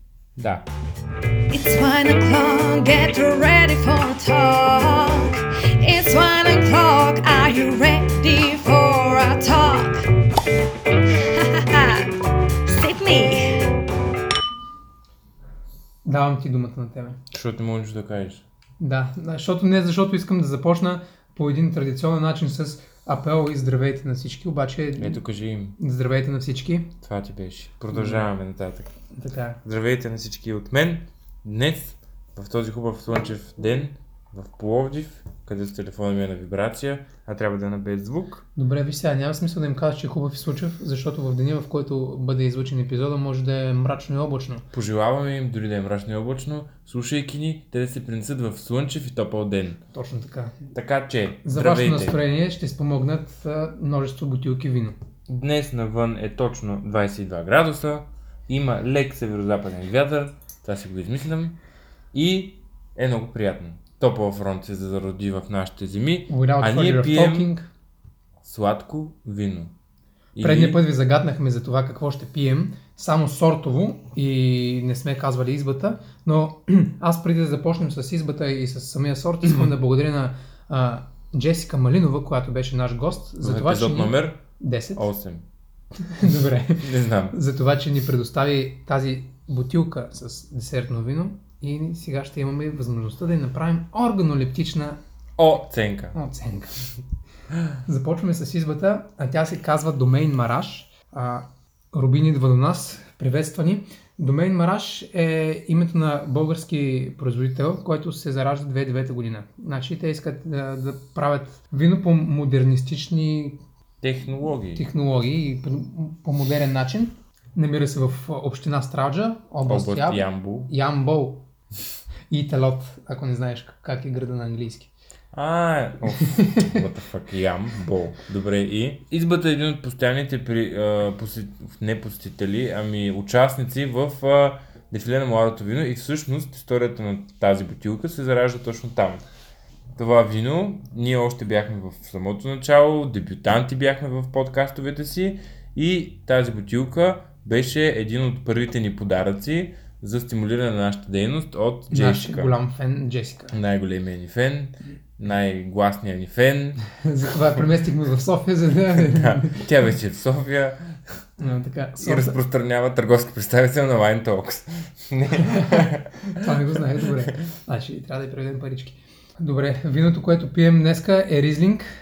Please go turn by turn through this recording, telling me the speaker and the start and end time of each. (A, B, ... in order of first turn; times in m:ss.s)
0:00.4-0:00.6 A
0:01.5-0:10.1 B
0:11.1-0:12.1 B
0:12.7-0:13.8 B
0:16.0-0:17.2 C
0:17.3-0:18.4 A
0:18.8-0:25.2 C
0:25.0-0:25.8 A
0:25.8-0:26.9 C
0:27.0-0:28.9 A
0:27.9-0:28.3 C
0:29.2-0:29.6 C
0:29.6-0:38.4 A
0:38.6-0:44.7 C
0:44.7-0:49.8 A
0:49.9-0:50.7 C
0:50.7-0:52.2 A
0:51.4-0:55.0 C
0:55.3-1:01.6 A
1:02.1-1:07.5 A
1:06.3-1:07.7 C
1:08.4-1:09.7 A
1:10.4-1:10.8 A
1:10.4-1:25.1 C
1:23.4-1:24.4 A
1:25.0-1:25.4 A
1:26.0-1:35.0 C
1:26.8-1:27.4 A
1:35.4-1:36.2 A
1:36.1-1:36.8 C
1:37.8-1:53.6 C
1:54.0-1:54.8 A
1:54.8-2:01.4 C
1:59.6-2:00.7 A
2:02.3-2:04.9 C
2:05.3-2:19.2 A
2:06.6-2:06.8 C
2:20.0-2:32.5 A
2:31.9-2:33.5 C
2:33.5-2:36.9 A
2:37.0-2:39.6 C
2:39.0-2:41.0 A
2:41.4-2:42.4 C
2:42.0-2:46.5 A
2:45.5-2:45.8 C
2:46.4-2:51.8 C